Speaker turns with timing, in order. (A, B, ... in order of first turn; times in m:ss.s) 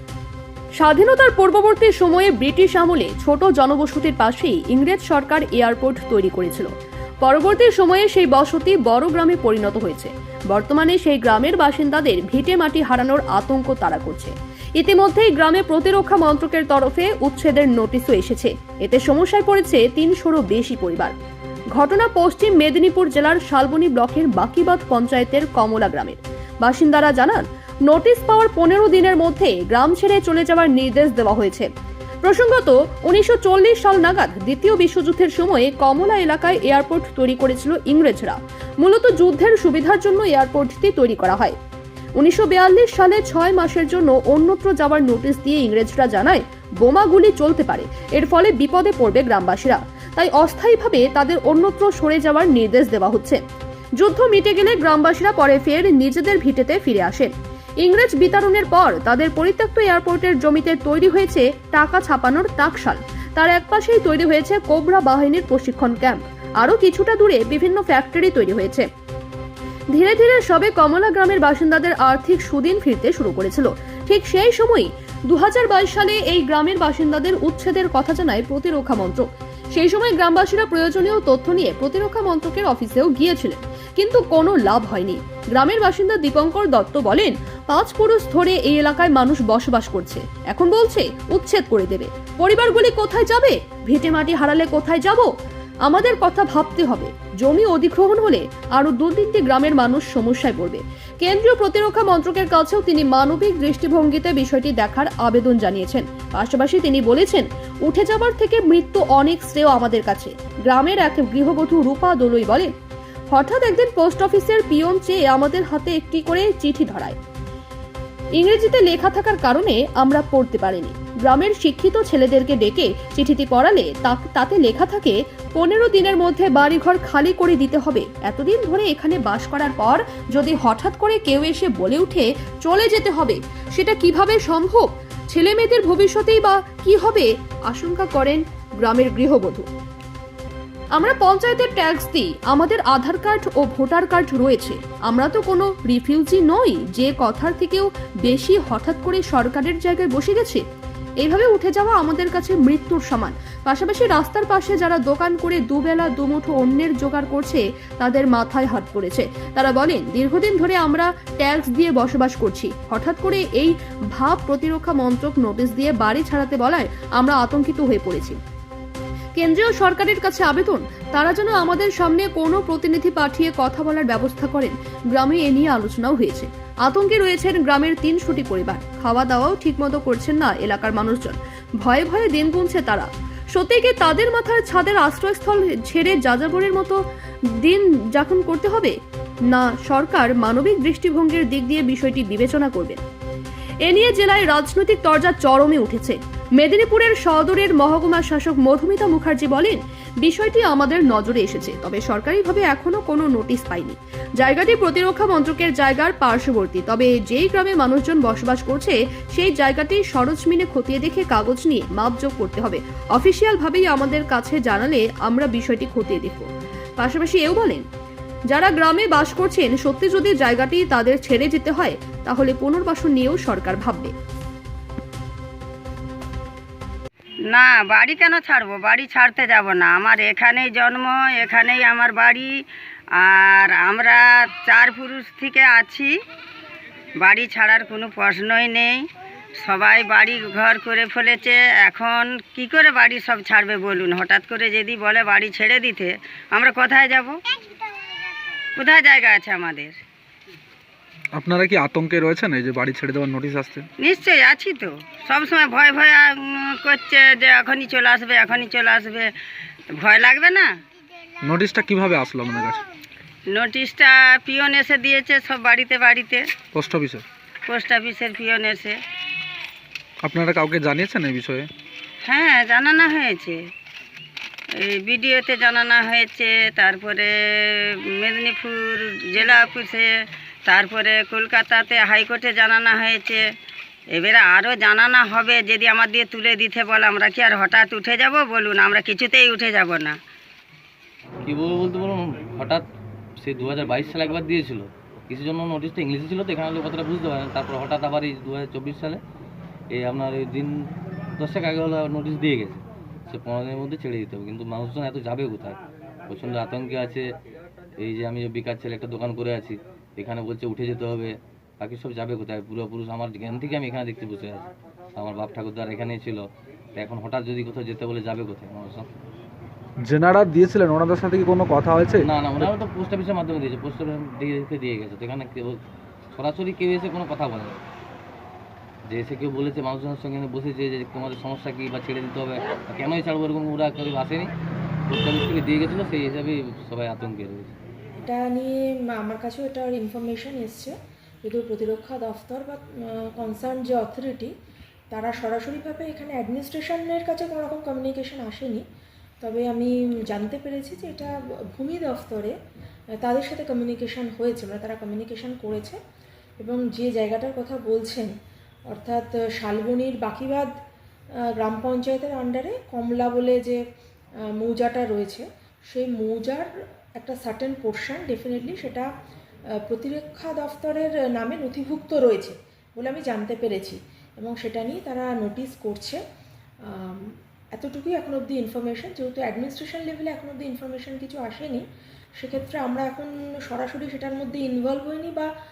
0:00.8-0:06.7 A
0:07.2-0:21.1 A
0:21.7-0:31.7 A
0:32.2-0:41.6 A
0:42.2-0:53.4 A
0:54.0-1:08.9 A
1:09.9-1:35.3 A
1:35.9-1:52.7 A
1:53.3-1:57.2 A
1:58.4-2:19.7 A
2:21.0-2:30.6 A
2:31.2-2:48.4 A
2:49.3-3:09.0 A
3:09.5-3:13.0 A
3:13.8-3:37.8 A
3:38.5-3:44.1 A
3:47.5-3:52.5 B
3:53.2-3:56.2 B
3:57.2-4:07.4 B
4:08.8-4:10.0 B
4:11.4-4:13.9 C
4:14.0-4:19.3 B
4:19.9-4:20.7 B
4:21.4-4:22.8 C
4:23.5-4:26.5 B
4:26.7-4:27.2 C
4:27.7-4:29.0 B
4:30.2-4:31.7 C
4:32.2-4:33.7 B
4:34.7-4:40.1 B
4:40.6-4:43.4 B
4:44.1-4:50.2 B
4:51.4-4:52.8 D
4:53.4-4:59.2 D
4:59.9-5:00.7 D
5:01.4-5:07.2 D
5:08.0-5:16.4 D
5:16.9-5:19.1 D
5:20.0-5:22.7 C
5:22.2-5:25.8 D
5:26.3-5:27.8 D
5:29.1-5:34.5 D
5:35.1-5:37.7 D
5:38.2-5:44.5 E
5:45.1-5:48.8 E
5:49.4-5:52.6 E
5:53.2-5:56.0 E
5:56.6-5:58.3 E
5:58.9-6:00.7 E
6:01.6-6:03.8 E
6:04.5-6:09.1 E
6:09.8-6:16.2 E
6:16.8-6:21.8 E
6:22.4-6:25.5 E